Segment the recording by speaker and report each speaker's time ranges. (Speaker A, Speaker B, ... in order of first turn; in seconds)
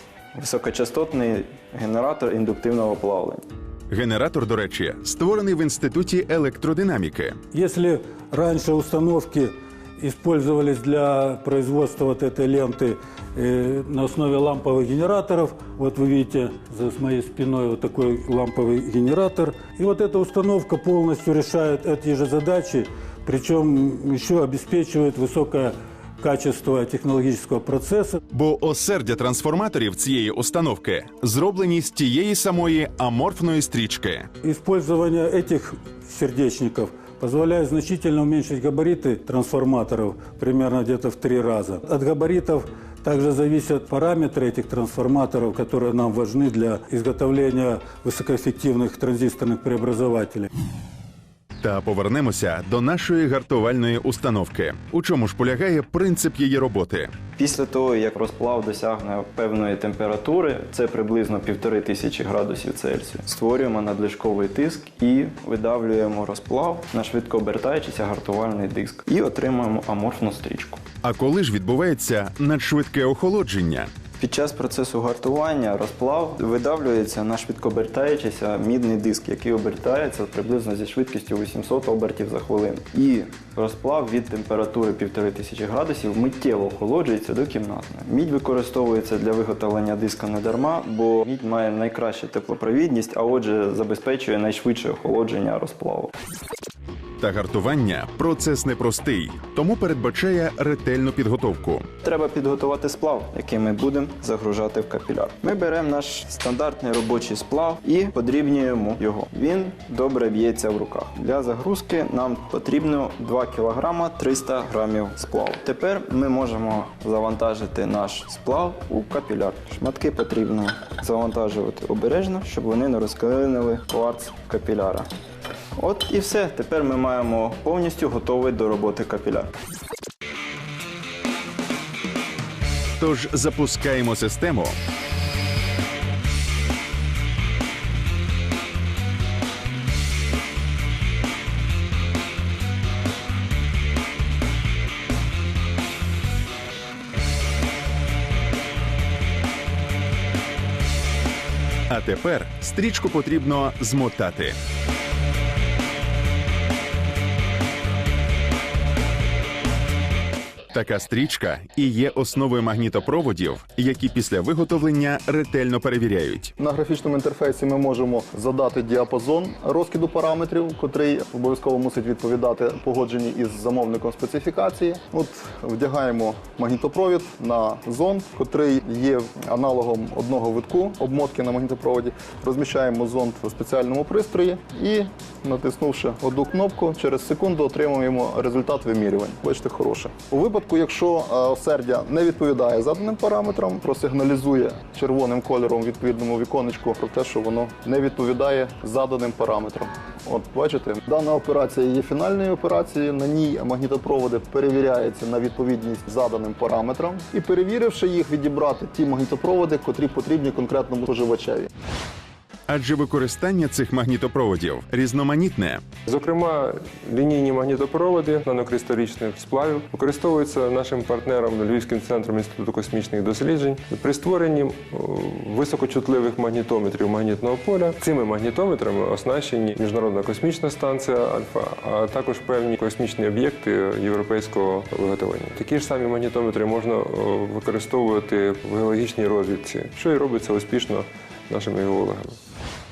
Speaker A: 0.3-3.5, 57.4-70.8, 74.2-96.1, 102.0-125.1, 125.8-129.5
Speaker B: 3.9-7.3, 28.3-34.3, 51.6-57.1, 71.0-73.9, 97.2-101.9, 133.0-134.8, 151.9-154.5, 160.7-166.5, 212.7-215.8
Speaker C: 7.5-28.2, 34.4-50.5
Speaker D: 166.6-211.7
Speaker E: 216.1-242.3